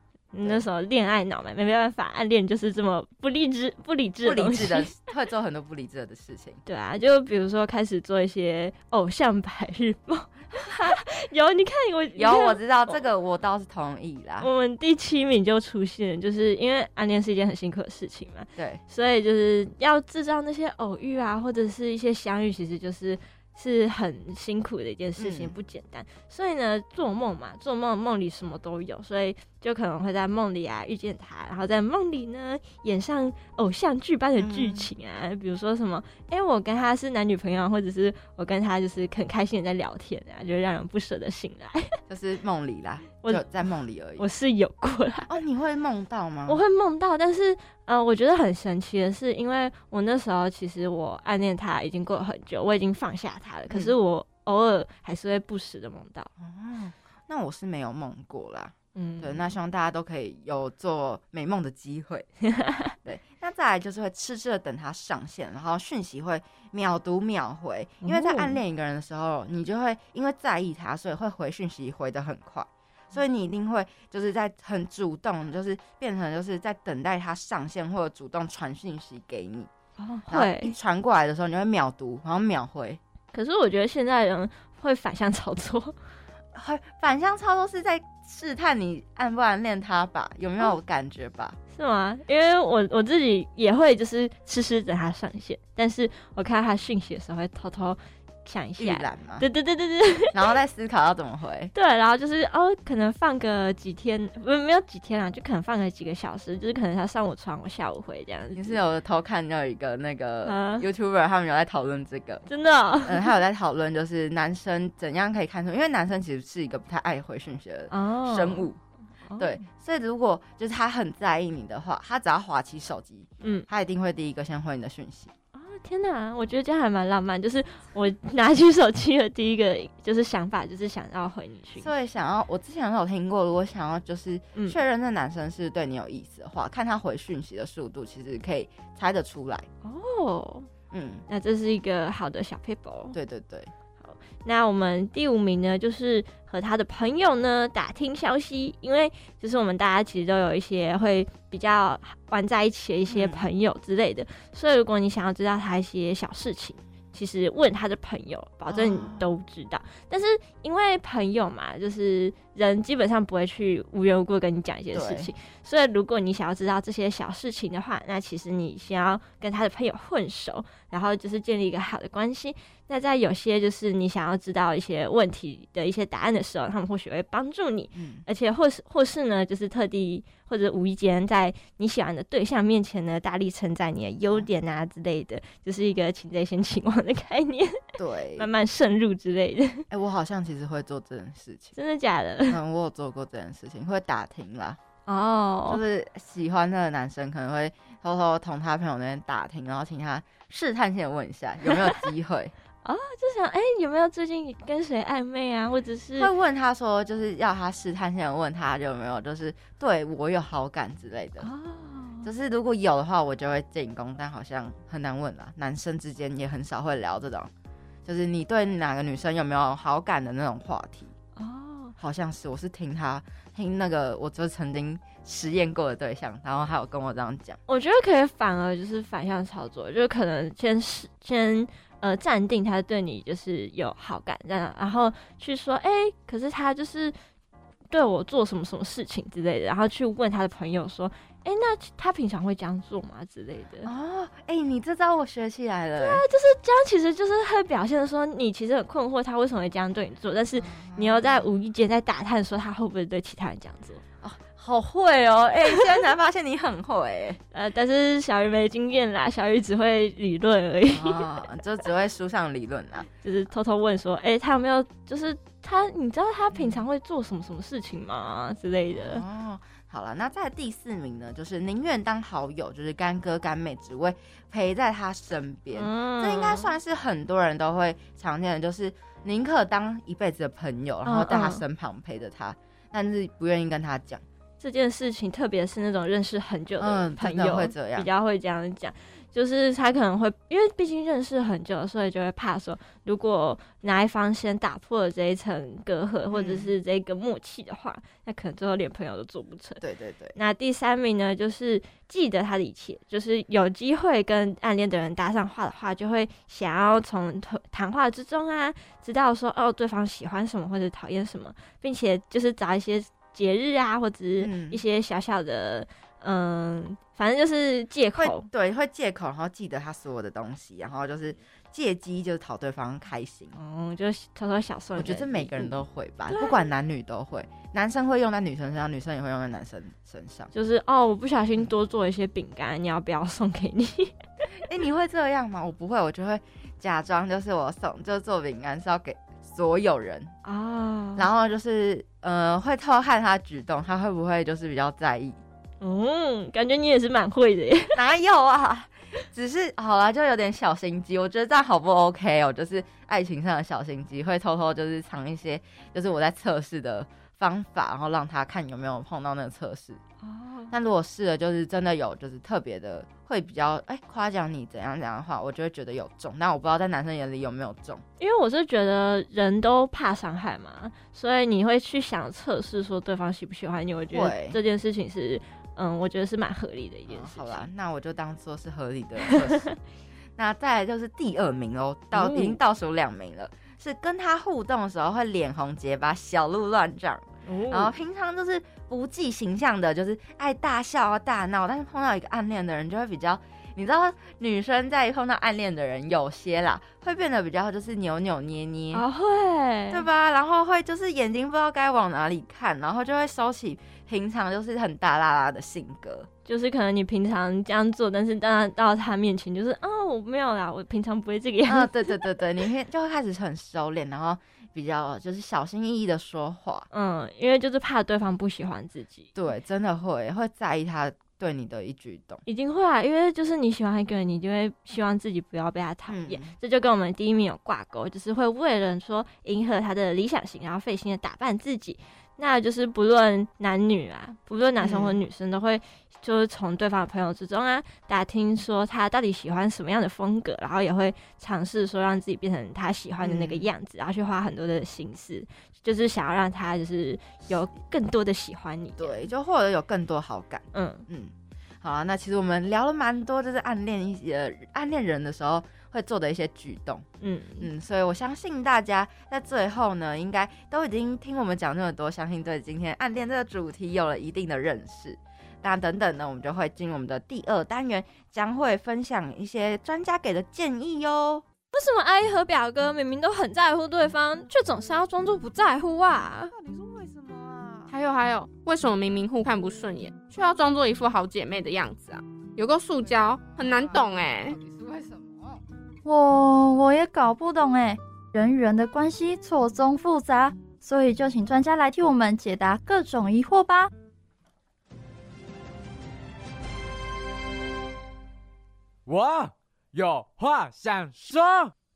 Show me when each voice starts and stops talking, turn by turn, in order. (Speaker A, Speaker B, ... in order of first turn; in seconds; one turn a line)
Speaker A: 0.3-4.9
Speaker B: 4.2-6.6
Speaker A: 6.7-13.0
Speaker B: 10.6-11.0
Speaker B: 12.2-14.5
Speaker A: 14.4-42.0
Speaker B: 18.6-18.8
Speaker B: 25.2-25.5
Speaker B: 34.4-34.9
Speaker B: 42.1-44.2
Speaker A: 44.2-45.3
Speaker B: 45.3-46.6
Speaker A: 46.5-56.3
Speaker B: 56.4-62.3
Speaker A: 59.0-59.4
Speaker A: 62.5-62.9
Speaker B: 63.0-79.7
Speaker A: 68.0-68.6
Speaker A: 80.0-80.7
Speaker B: 80.3-83.0
Speaker A: 83.3-86.0
Speaker B: 86.5-91.6
Speaker A: 91.7-100.3
Speaker B: 98.8-99.4
Speaker B: 100.3-101.7
Speaker A: 101.7-108.8
Speaker B: 108.5-112.5
Speaker A: 110.4-110.8
Speaker A: 112.5-113.3
Speaker B: 113.0-118.8
Speaker A: 117.9-118.7
Speaker A: 119.3-119.6
Speaker B: 119.4-125.3
Speaker A: 123.4-123.7
Speaker A: 125.5-131.9
Speaker B: 131.8-139.7
Speaker A: 139.8-140.7
Speaker B: 140.9-141.2
Speaker A: 141.3-143.2
Speaker B: 143.1-143.7
Speaker A: 144.0-187.8
Speaker B: 153.1-153.4
Speaker B: 158.7-159.3
Speaker B: 164.9-165.3
Speaker B: 177.9-178.2
Speaker B: 188.0-188.5
Speaker A: 188.4-189.8
Speaker B: 189.9-191.7
Speaker A: 191.8-192.6
Speaker B: 192.5-194.8
Speaker A: 195.1-195.8
Speaker B: 195.7-202.5
Speaker A: 202.8-206.3
Speaker B: 206.2-211.5
Speaker A: 211.4-212.3
Speaker B: 212.2-217.5
Speaker B: 218.1-221.1
Speaker A: 221.3-221.9
Speaker B: 222.0-227.6
Speaker A: 227.7-237.1
Speaker A: 237.9-243.9
Speaker B: 243.8-246.2
Speaker A: 246.0-254.0
Speaker B: 250.6-251.5
Speaker B: 254.2-257.4
Speaker A: 257.5-261.2
Speaker B: 260.9-263.1
Speaker A: 263.2-269.2
Speaker B: 266.5-266.8
Speaker B: 268.9-284.2
Speaker A: 275.7-276.7
Speaker A: 281.1-281.6
Speaker A: 284.6-299.8
Speaker B: 286.8-288.1
Speaker B: 296.3-296.7
Speaker B: 299.8-300.4
Speaker A: 300.4-318.5
Speaker B: 314.4-314.8
Speaker B: 318.2-323.5
Speaker A: 323.5-326.7
Speaker B: 324.9-330.5
Speaker A: 330.5-334.1
Speaker B: 334.6-340.3
Speaker A: 340.4-341.2
Speaker B: 341.1-345.4
Speaker A: 345.8-347.9
Speaker B: 347.9-360.0
Speaker A: 360.2-360.7
Speaker B: 360.7-368.0
Speaker A: 368.2-377.7
Speaker B: 374.1-374.6
Speaker B: 377.1-379.7
Speaker A: 379.3-379.6
Speaker B: 380.4-399.0
Speaker A: 382.1-382.6
Speaker A: 387.4-387.9
Speaker A: 398.9-400.0
Speaker B: 399.9-406.3
Speaker A: 406.4-412.2
Speaker B: 411.7-416.9
Speaker A: 416.9-419.3
Speaker B: 419.3-422.4
Speaker A: 422.4-449.2
Speaker B: 426.1-426.5
Speaker B: 434.8-435.2
Speaker B: 443.2-443.7
Speaker B: 449.0-457.0
Speaker A: 450.7-451.1
Speaker A: 457.2-457.7
Speaker B: 457.6-471.4
Speaker A: 471.7-476.5
Speaker C: 476.5-477.9
Speaker D: 477.9-484.6
Speaker C: 483.4-485.6
Speaker E: 486.0-493.9
Speaker F: 499.1-501.7